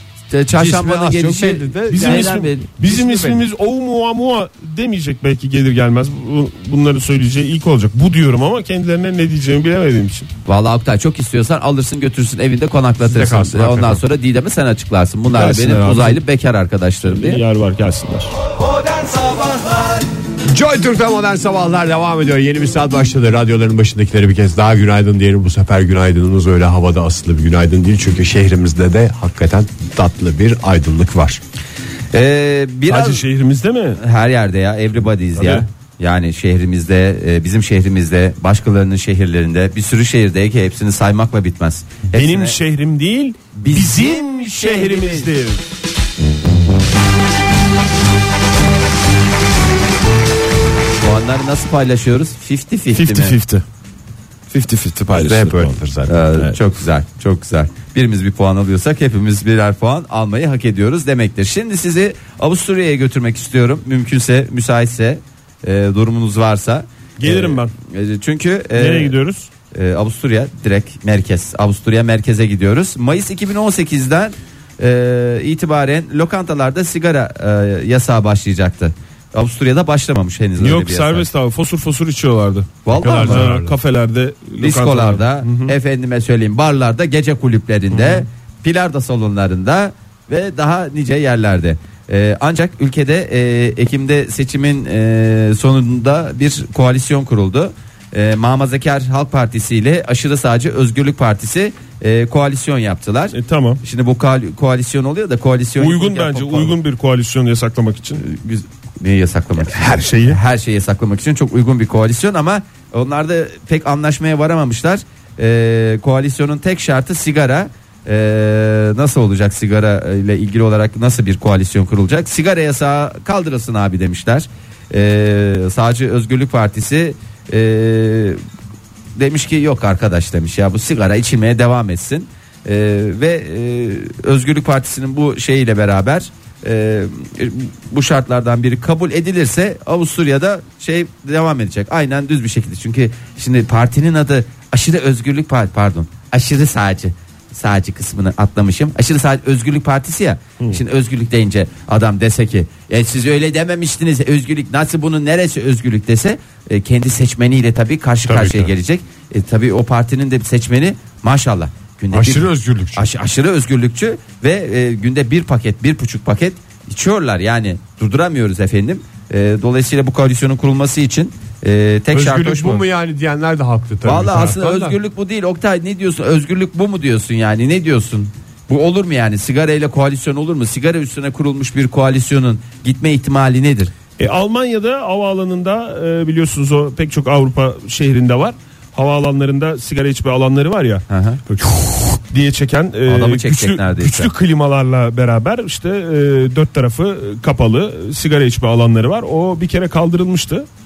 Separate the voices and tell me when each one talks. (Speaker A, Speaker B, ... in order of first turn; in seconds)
Speaker A: 0.3-2.7, 10.4-17.4, 32.1-33.2, 34.0-42.6, 43.5-45.3, 51.0-53.4, 56.1-69.2, 69.7-81.3, 82.8-83.5, 84.6-106.8, 108.2-128.4, 129.2-172.8, 174.0-183.9, 191.1-191.4, 193.1-194.3
Speaker B: 0.5-3.5, 13.0-14.0, 20.5-31.4, 55.1-56.5, 82.9-83.8, 158.3-158.7, 162.1-163.1, 172.1-175.0
Speaker C: 1.9-10.3, 15.3-16.2, 17.0-18.3, 32.9-34.0, 35.4-35.7, 42.1-45.6, 52.9-53.6, 54.5-55.8, 67.2-67.7, 68.8-69.5, 80.6-85.8, 87.9-88.2, 103.3-103.8, 105.8-108.2, 109.7-110.4, 184.2-200.7